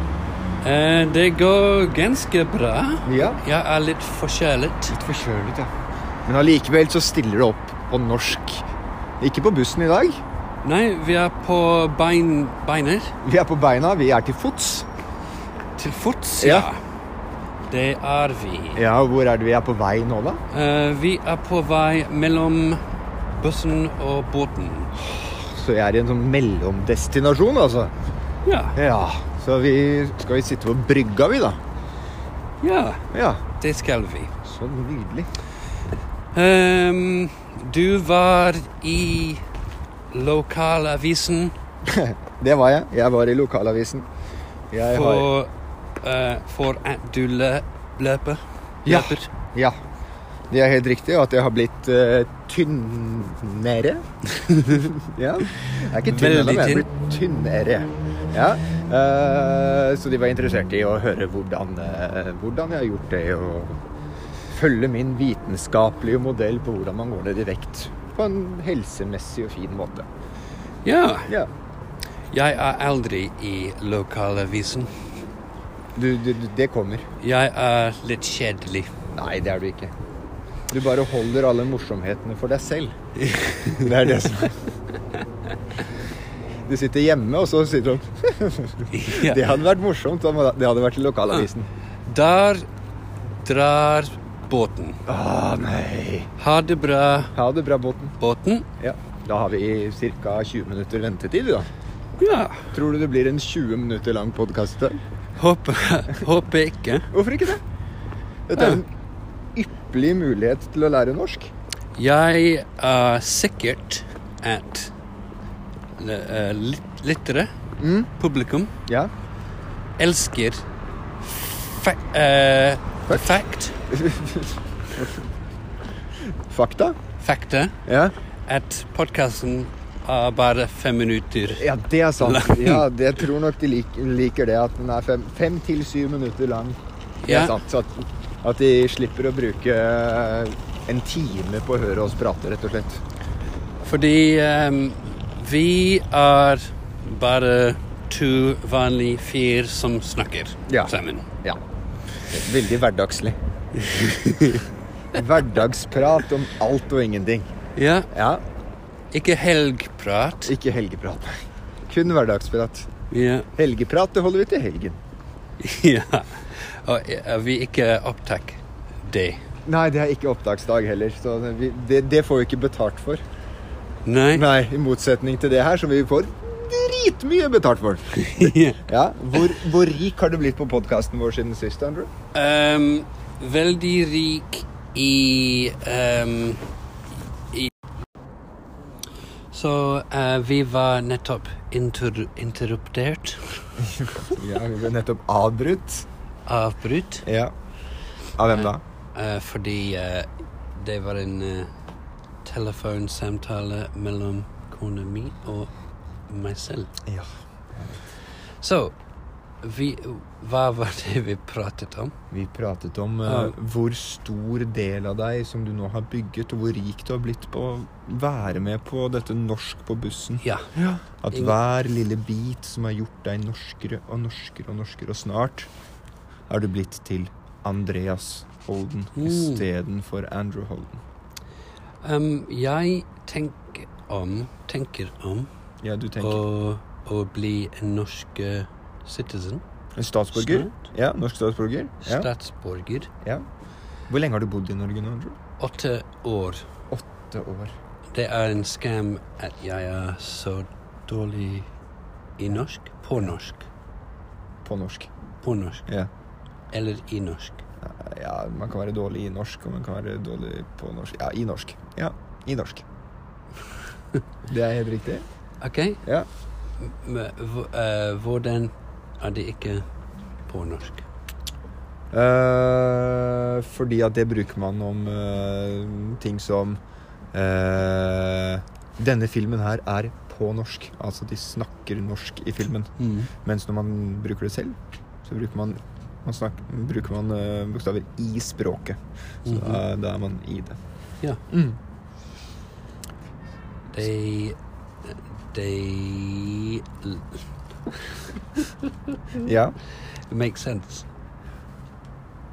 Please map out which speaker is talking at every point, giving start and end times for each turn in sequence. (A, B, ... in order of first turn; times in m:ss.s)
0:00.6-0:05.0 A
0:03.0-0:03.4 B
0:04.9-0:05.7 B
0:06.2-0:08.6 B
0:09.2-0:10.2 B
0:10.6-0:13.1 A
0:13.2-0:14.9 B
0:15.8-0:16.8 A
0:16.4-0:16.7 B
0:17.7-0:18.8 A
0:18.8-0:20.4 B
0:20.5-0:22.8 A
0:23.3-0:24.9 A
0:25.0-0:27.9 B
0:28.4-0:28.8 A
0:28.8-0:31.6 B
0:32.6-0:33.1 A
0:33.1-0:33.4 B
0:33.6-0:34.3 A
0:34.4-0:35.3 B
0:36.3-0:39.4 A
0:40.1-0:41.6 A
0:41.8-0:44.1 B
0:44.7-0:45.3 B
0:44.9-0:49.3 A
0:48.9-0:49.8 B
0:50.5-0:54.0 B
0:54.4-0:54.9 A
0:54.7-1:03.8 B
0:56.0-0:56.9 A
1:04.5-1:10.1 B
1:10.8-1:11.3 A
1:12.3-1:14.9 A
1:16.0-1:17.1 B
1:17.2-1:18.9 A
1:19.2-1:19.9 B
1:20.7-1:23.0 B
1:23.2-1:24.0 A
1:23.7-1:24.6 B
1:26.7-1:31.7 B
1:28.9-1:29.6 A
1:32.1-1:32.7 A
1:33.4-1:35.0 A
1:35.1-1:36.3 B
1:36.4-1:37.3 A
1:37.3-1:38.2 B
1:38.2-1:38.7 A
1:38.8-1:41.7 B
1:42.2-1:42.7 A
1:42.7-1:45.0 B
1:45.4-1:47.1 A
1:47.1-1:47.6 B
1:48.5-1:48.9 B
1:49.6-1:51.5 B
1:52.0-1:54.9 A
1:56.0-1:57.5 A
1:57.8-1:58.1 B
1:58.2-1:58.7 A
2:00.0-2:00.6 A
2:01.2-2:03.8 A
2:03.1-2:03.4 B
2:03.9-2:05.2 B
2:06.5-2:07.0 B
2:07.2-2:07.8 A
2:07.8-2:08.1 B
2:08.5-2:11.7 A
2:11.5-2:23.0 B
2:12.2-2:12.8 A
2:17.2-2:17.6 A
2:23.8-2:31.2 A
2:30.7-2:31.6 B
2:32.3-2:33.4 B
2:33.8-2:34.6 A
2:35.1-2:37.6 B
2:37.8-2:38.1 A
2:38.1-2:38.4 B
2:39.1-2:40.6 A
2:40.5-2:42.9 B
2:43.1-2:43.5 A
2:43.6-2:45.0 B
2:45.6-2:49.4 A
2:49.7-2:53.2 B
2:54.0-2:54.5 A
2:54.3-3:02.1 B
2:58.2-2:58.8 A
3:02.3-3:06.6 A
3:09.5-3:13.8 A
3:13.8-3:16.1 B
3:16.5-3:17.2 A
3:17.2-3:17.5 B
3:18.4-3:18.8 B
3:18.5-3:21.7 A
3:22.4-3:25.7 A
3:26.3-3:26.9 A
3:27.1-3:28.0 B
3:28.2-3:28.9 A
3:29.6-3:32.1 A
3:32.3-3:45.7 B
3:33.2-3:33.6 A
3:40.4-3:40.7 A
3:46.5-3:51.0 B
3:49.2-3:49.7 A
3:52.0-3:55.5 A
3:55.8-3:56.4 B
3:56.2-3:59.6 A
4:00.0-4:02.3 B
4:00.3-4:00.8 A
4:02.0-4:03.1 A
4:04.1-4:05.3 B
4:05.6-4:06.6 A
4:06.9-4:07.7 B
4:08.1-4:11.7 A
4:12.4-4:13.7 A
4:14.6-4:15.1 B
4:15.4-4:15.9 A
4:16.7-4:17.6 A
4:17.8-4:22.8 B
4:24.5-4:25.2 B
4:25.6-4:26.0 A
4:26.8-4:29.8 A
4:30.4-4:31.0 A
4:32.1-4:36.8 B
4:37.3-4:42.9 B
4:43.0-4:43.3 A
4:43.4-4:50.8 B
4:49.4-4:49.8 A
4:51.5-4:51.8 B
4:53.9-4:54.6 A
4:55.1-4:57.4 A
4:58.3-4:58.7 A
4:59.4-4:59.7 B
5:00.3-5:01.1 A